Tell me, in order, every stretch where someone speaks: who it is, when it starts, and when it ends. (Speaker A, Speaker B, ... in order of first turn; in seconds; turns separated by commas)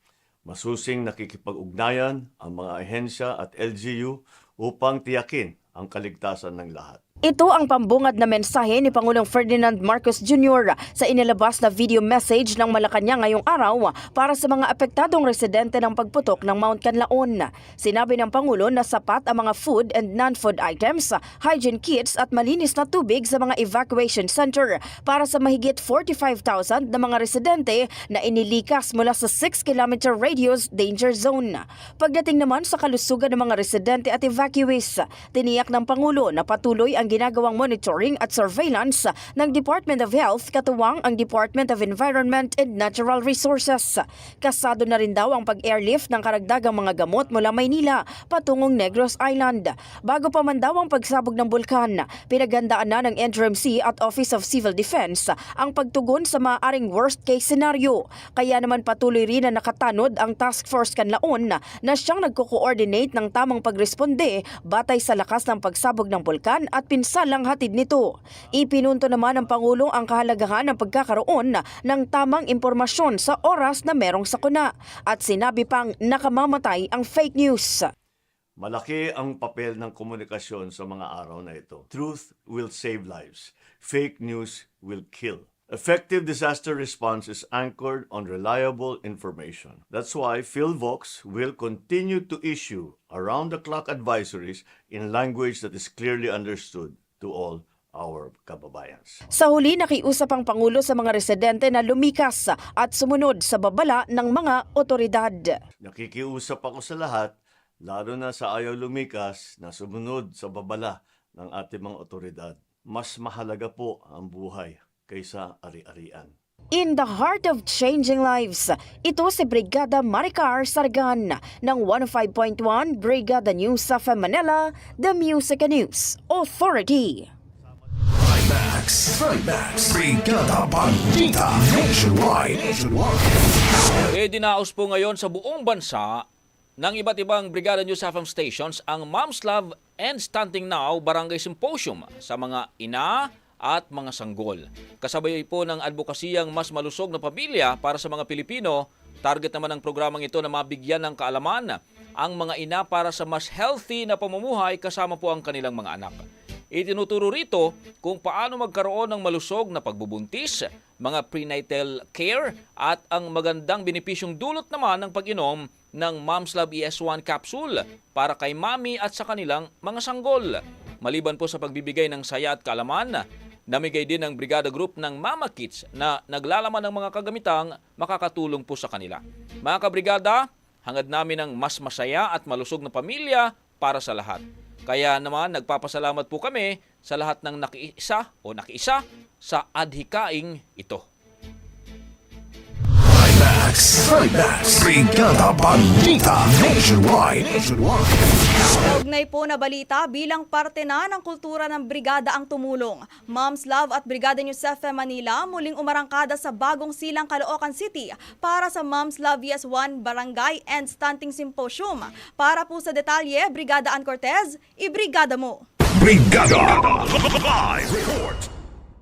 Speaker A: 0.5-7.0, Speaker B: 7.3-77.9, Speaker A: 78.6-99.2, Speaker B: 99.4-105.5, Speaker A: 105.8-107.3, Speaker A: 107.8-116.3, Speaker B: 116.8-127.3, Speaker C: 128.3-133.1, Speaker D: 134.1-136.2, Speaker D: 136.8-191.0, Speaker C: 193.2-198.1, Speaker E: 198.8-215.6, Speaker C: 216.0-216.9, Speaker C: 218.0-218.3